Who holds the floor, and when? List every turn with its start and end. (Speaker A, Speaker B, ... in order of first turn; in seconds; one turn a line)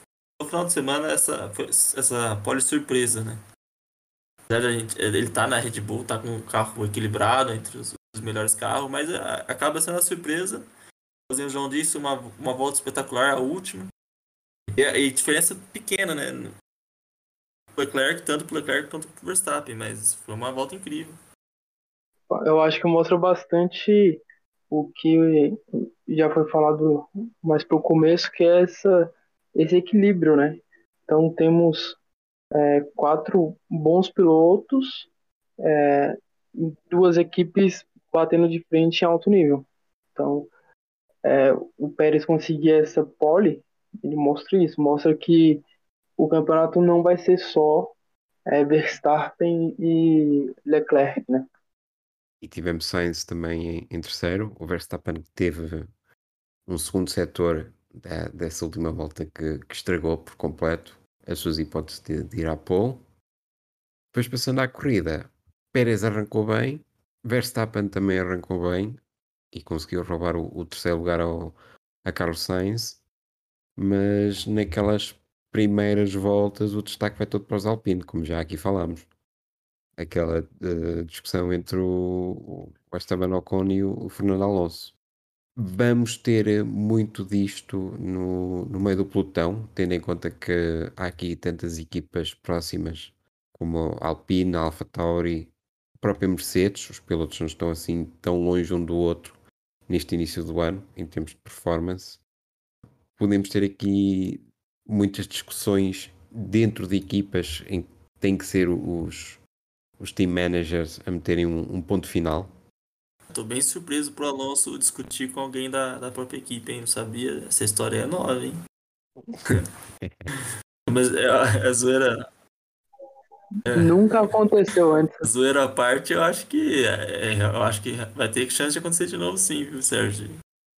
Speaker A: 0.4-3.4
Speaker A: 4.5-10.7
Speaker A: 11.3-13.9
Speaker A: 14.7-16.5
Speaker A: 17.8-21.2
Speaker B: 22.3-32.0
Speaker B: 32.5-35.1
Speaker B: 35.6-40.5
Speaker B: 41.2-45.6
Speaker B: 46.2-47.9
Speaker B: 48.5-51.5
Speaker C: 52.4-55.9
Speaker C: 56.7-63.0
Speaker C: 64.1-69.0
Speaker C: 69.5-73.0
Speaker C: 73.8-79.1
Speaker C: 80.0-85.0
Speaker C: 85.6-99.3
Speaker C: 99.9-102.2
Speaker C: 103.2-109.4
Speaker C: 110.0-112.5
Speaker A: 113.3-118.6
Speaker C: 120.0-120.3
Speaker A: 120.4-122.2
Speaker A: 123.7-124.3
Speaker B: 123.7-125.3
Speaker A: 125.2-130.4